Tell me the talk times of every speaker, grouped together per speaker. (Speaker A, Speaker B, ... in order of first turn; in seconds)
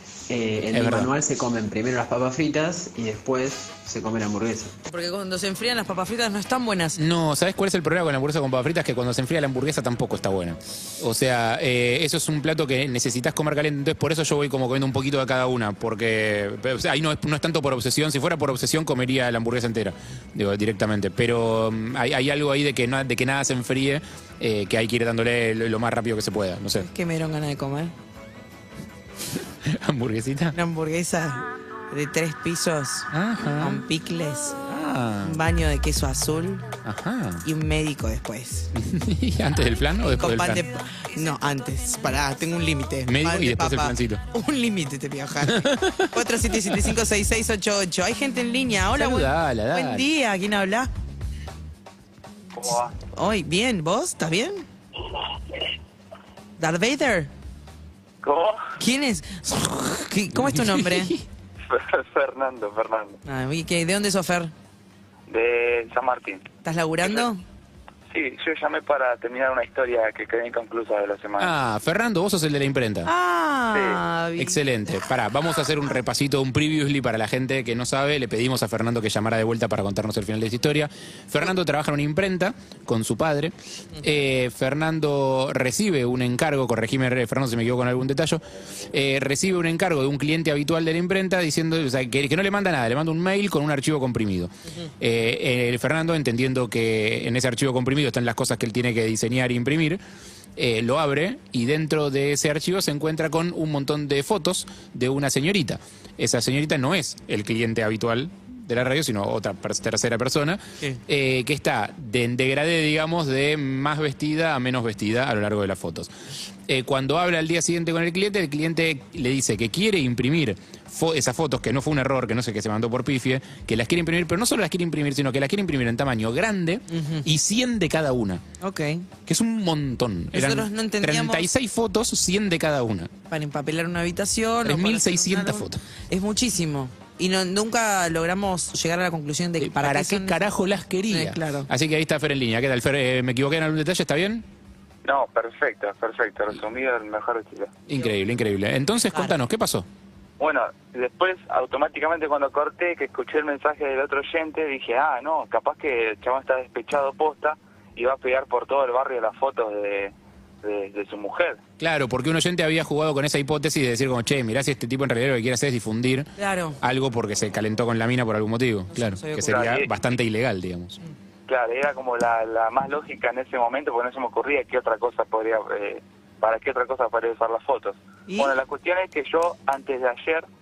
Speaker A: 0.3-4.7
Speaker B: 0.7-1.1, 7.0-26.9, 29.4-30.6, 33.1-33.8, 34.7-35.4, 36.8-37.4, 38.7-40.6, 43.0-44.2, 45.5-47.0, 48.9-50.0, 60.4-61.2, 71.4-73.1, 74.4-100.0, 100.6-116.1, 116.7-128.4, 129.2-133.1, 134.6-135.8, 139.6-144.4, 147.9-149.8, 161.8-166.3, 166.8-171.0
Speaker C: 4.9-7.0, 26.8-27.9, 30.5-34.7, 35.2-36.6, 37.4-38.7, 40.2-50.9, 53.0-54.6, 56.6-57.3, 58.8-61.1, 63.2-64.5, 66.6-67.4, 73.0-74.6, 126.9-127.3, 128.6-129.1, 130.3-131.5, 133.3-140.5, 141.1-141.7, 149.1-149.4, 166.4-166.8, 168.9-169.7, 178.3-178.6
Speaker D: 62.1-63.1, 65.3-66.4, 68.2-71.2, 145.2-146.3, 146.9-147.6, 151.1-152.5, 153.7-157.5, 158.4-160.1, 171.7-176.0, 176.6-177.9, 178.7-180.4